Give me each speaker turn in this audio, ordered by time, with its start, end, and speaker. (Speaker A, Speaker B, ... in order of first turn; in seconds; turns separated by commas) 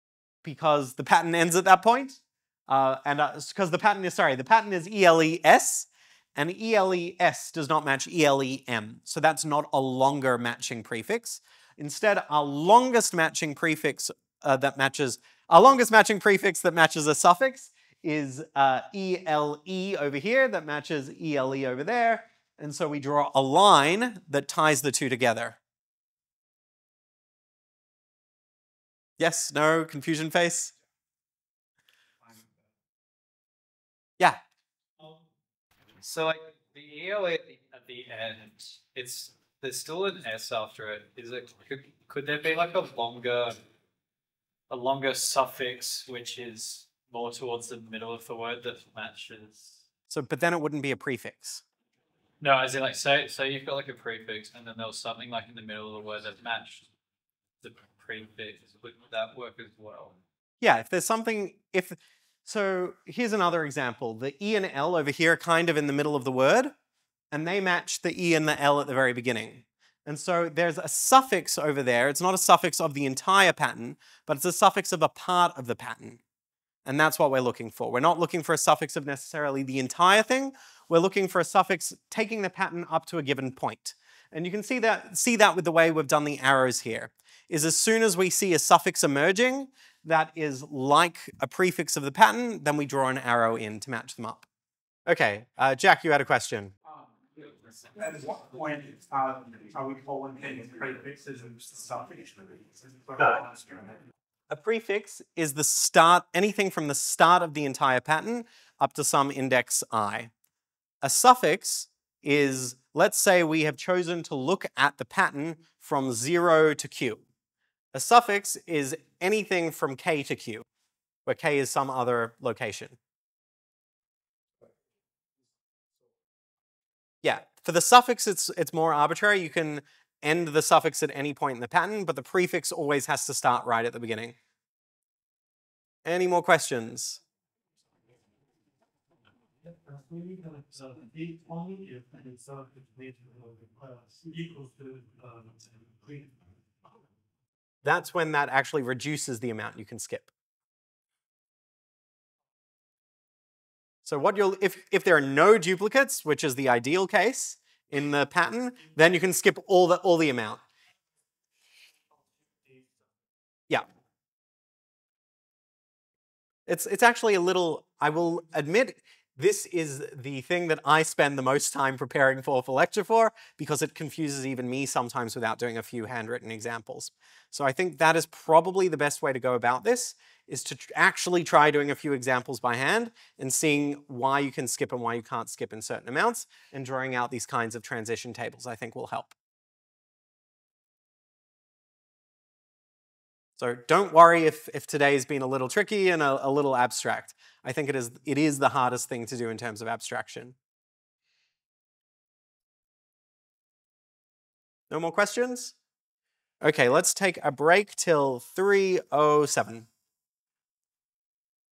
Speaker A: 0.4-25.6, Speaker A: 29.2-30.7, Speaker B: 36.0-43.6, Speaker B: 44.7-49.8, Speaker A: 50.1-51.6, Speaker B: 52.4-56.9, Speaker B: 57.6-60.2, Speaker A: 60.6-66.7, Speaker A: 67.3-76.2, Speaker A: 76.8-94.5, Speaker A: 95.1-96.7, Speaker C: 97.4-104.0, Speaker A: 104.5-110.3, Speaker A: 111.0-117.2, Speaker A: 117.9-120.6, Speaker A: 121.2-123.0, Speaker A: 127.2-134.3, Speaker A: 136.0-137.2, Speaker C: 139.6-146.3, Speaker A: 147.8-150.3, Speaker A: 154.1-160.6, Speaker A: 166.7-189.3, Speaker A: 193.6-200.6, Speaker A: 204.9-205.7, Speaker A: 206.6-209.9